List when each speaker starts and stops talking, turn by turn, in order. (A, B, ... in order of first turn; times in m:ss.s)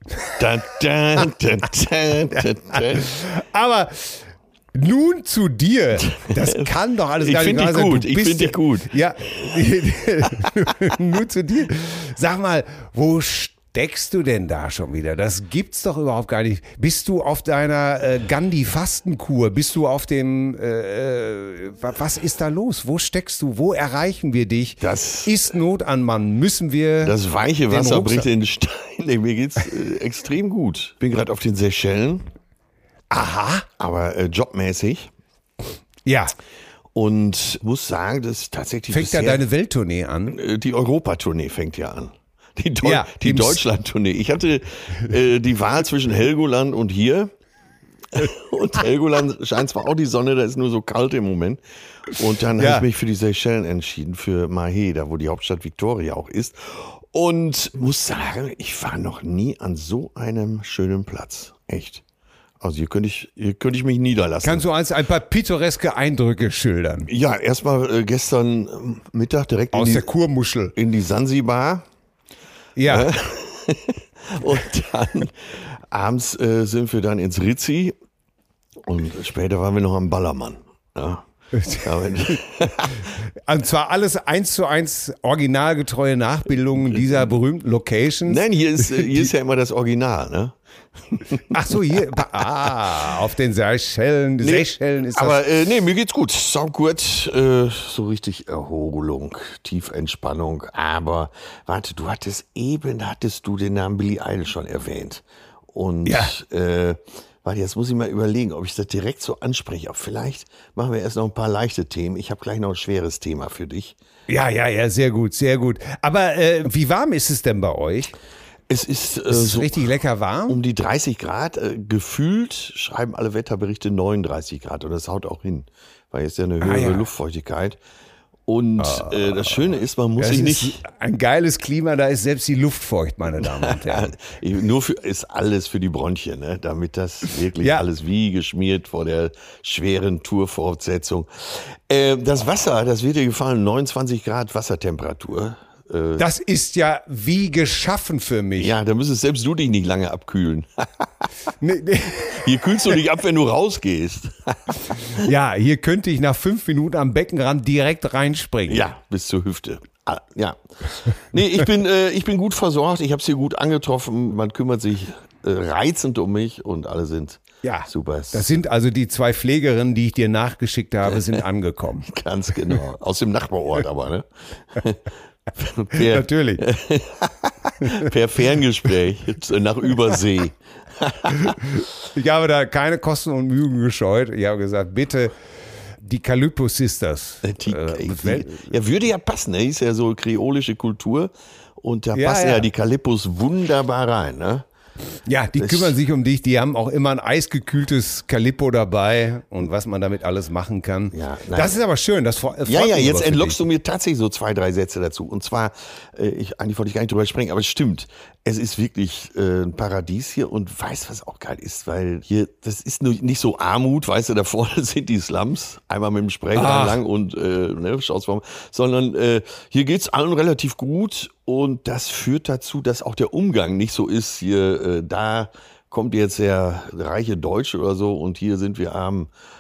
0:00.4-0:03.1 A
0:02.7-0:27.2 B
0:06.1-0:06.7 A
0:07.2-0:08.9 A
0:24.8-0:25.4 A
0:27.0-0:32.3 A
0:27.7-0:28.3 B
0:33.1-0:33.7 B
0:33.8-0:35.1 A
0:36.1-0:36.3 B
0:36.9-0:39.4 A
0:38.9-0:40.4 B
0:40.3-0:47.3 A
0:42.8-0:43.6 B
0:48.1-1:02.0 A
0:52.6-0:52.9 B
1:02.6-1:04.6 A
1:04.4-1:07.1 B
1:07.1-1:10.1 A
1:09.7-1:10.7 B
1:10.8-1:11.9 A
1:12.8-1:13.1 B
1:12.9-1:18.0 A
1:18.8-1:23.1 A
1:21.6-1:22.4 B
1:23.0-1:29.3 B
1:26.9-1:27.3 A
1:28.3-1:30.6 A
1:31.1-1:32.0 A
1:31.5-1:35.4 B
1:34.4-1:54.0 A
1:46.0-1:46.4 B
1:54.3-1:58.1 B
1:58.7-1:59.8 A
1:59.3-2:00.6 B
2:00.5-2:07.8 A
2:06.6-2:07.0 B
2:08.5-2:10.8 A
2:08.8-2:09.6 B
2:10.2-2:14.1 B
2:13.4-2:26.2 A
2:26.2-2:28.7 B
2:28.6-2:31.1 A
2:31.6-2:32.9 B
2:32.2-2:35.3 A
2:35.0-2:38.8 B
2:38.7-2:48.5 A
2:47.6-2:52.1 B
2:52.1-3:01.6 A
2:55.9-2:56.6 B
3:01.3-3:05.4 B
3:06.0-3:08.7 B
3:07.4-3:14.7 A
3:12.1-3:12.7 B
3:15.3-3:23.6 B
3:15.6-3:16.0 A
3:21.1-3:21.8 A
3:22.7-3:49.3 A
3:36.6-3:37.0 B